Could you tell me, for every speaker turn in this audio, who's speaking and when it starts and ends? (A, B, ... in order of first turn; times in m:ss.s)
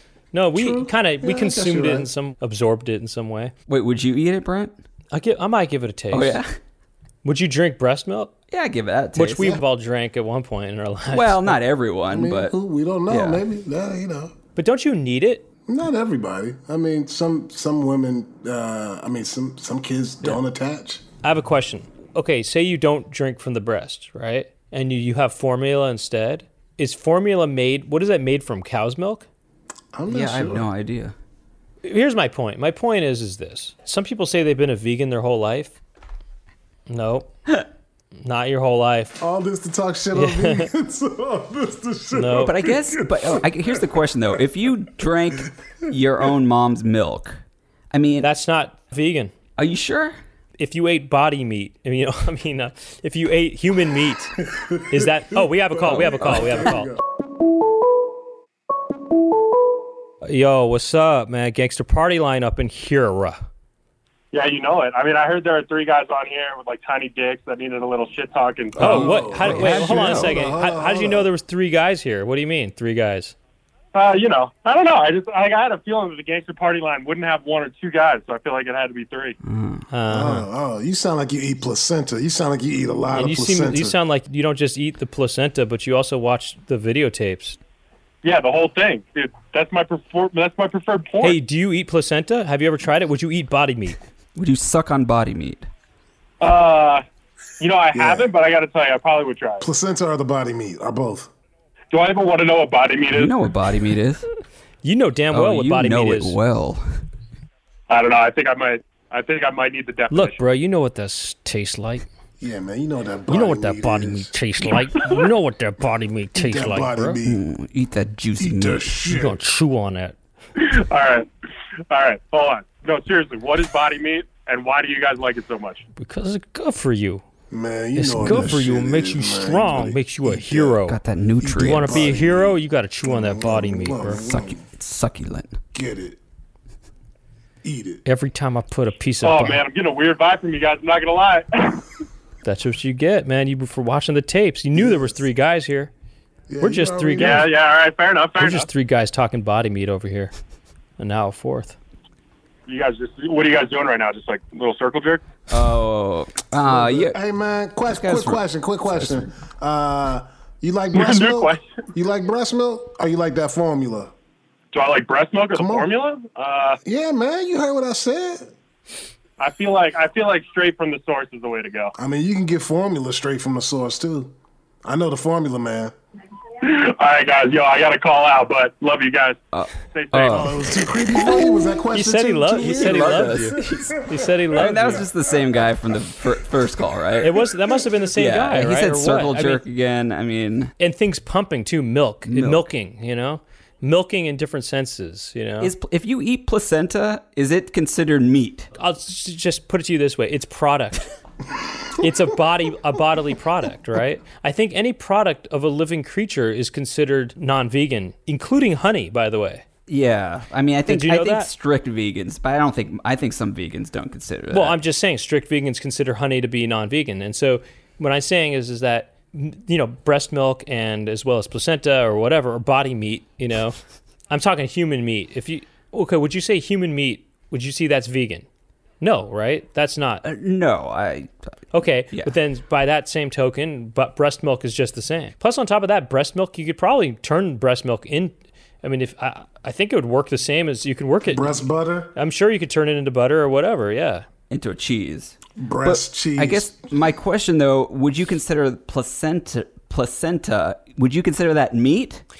0:00.3-0:03.5 A
0:00.5-0:02.1 B
0:03.7-0:04.7 C
0:05.1-0:06.4 A
0:06.1-0:06.5 C
0:07.2-0:08.3 A
0:08.5-0:09.6 C
0:09.2-0:11.6 A
0:11.1-0:12.5 C
0:12.1-0:14.3 B
0:13.1-0:13.4 C
0:14.6-0:15.4 A
0:15.7-0:21.0 B
0:21.2-0:29.2 A
0:29.9-0:30.7 B
0:30.1-0:31.1 C
0:31.8-0:35.8 A
0:36.9-0:37.3 A
0:38.2-0:39.2 A
0:39.2-0:43.8 B
0:40.1-0:40.7 A
0:42.1-0:42.5 A
0:42.4-0:47.4 C
0:47.9-0:48.3 C
0:48.2-0:49.3 A
0:49.6-0:50.2 C
0:50.6-0:54.4 A
0:54.6-0:57.0 B
0:54.9-0:56.9 A
1:00.2-1:03.4 A
1:04.3-1:09.0 D
1:08.8-1:11.3 B
1:08.8-1:13.3 A
1:08.8-1:10.4 C
1:13.9-1:19.4 D
1:19.4-1:19.8 C
1:19.9-1:20.4 A
1:20.1-1:24.0 B
1:23.1-1:27.6 A
1:28.2-1:31.4 D
1:31.2-1:34.0 A
1:34.4-1:35.7 C
1:36.4-1:37.0 D
1:37.6-1:39.7 D
1:37.9-1:38.3 B
1:39.6-1:41.3 B
1:41.9-1:43.3 D
1:43.1-1:44.2 C
1:44.8-1:46.3 A
1:45.3-1:46.8 C
1:47.9-1:50.4 D
1:50.1-1:52.1 A
1:52.4-1:54.3 B
1:53.3-1:57.2 A
1:56.3-1:57.4 B
1:57.2-1:59.2 C
1:58.4-1:59.4 B
1:59.1-2:00.2 A
2:00.6-2:01.3 D
2:01.9-2:05.8 D
2:06.0-2:07.2 A
2:07.5-2:10.8 B
2:08.0-2:11.0 A
2:08.3-2:08.6 C
2:10.9-2:12.0 C
2:11.4-2:14.6 B
2:11.6-2:14.2 A
2:14.1-2:15.6 C
2:15.7-2:16.2 B
2:17.6-2:18.0 B
2:18.0-2:19.6 A
2:19.2-2:21.8 D
2:22.4-2:25.9 A
2:24.7-2:25.1 B
2:26.5-2:27.5 B
2:26.6-2:27.5 A
2:27.2-2:28.7 D
2:28.4-2:30.3 A
2:31.0-2:31.8 A
2:32.7-2:35.2 D
2:35.5-2:37.2 C
2:36.6-2:44.1 B
2:37.9-2:39.3 C
2:40.9-2:41.6 D
2:44.7-2:46.8 D
2:45.5-2:45.9 B
2:46.8-2:48.5 B
2:49.4-2:51.9 D
2:52.0-2:55.9 B
2:56.6-2:59.4 D
2:59.5-3:01.4 C
2:59.9-3:00.5 D
3:00.3-3:05.0 B
3:01.9-3:05.0 A
3:02.6-3:07.4 C
3:07.2-3:09.6 A
3:08.2-3:10.7 C
3:10.8-3:15.7 A
3:12.3-3:12.7 C
3:15.6-3:18.7 C
3:18.8-3:21.0 A
3:22.0-3:29.6 A
3:29.9-3:34.8 C
3:30.9-3:31.5 A
3:34.5-3:43.8 A
3:44.3-3:48.4 A
3:49.0-3:50.2 A
3:50.2-3:51.3 C
3:51.7-4:04.2 A
4:01.3-4:02.1 B
4:04.5-4:12.2 C
4:05.6-4:06.8 B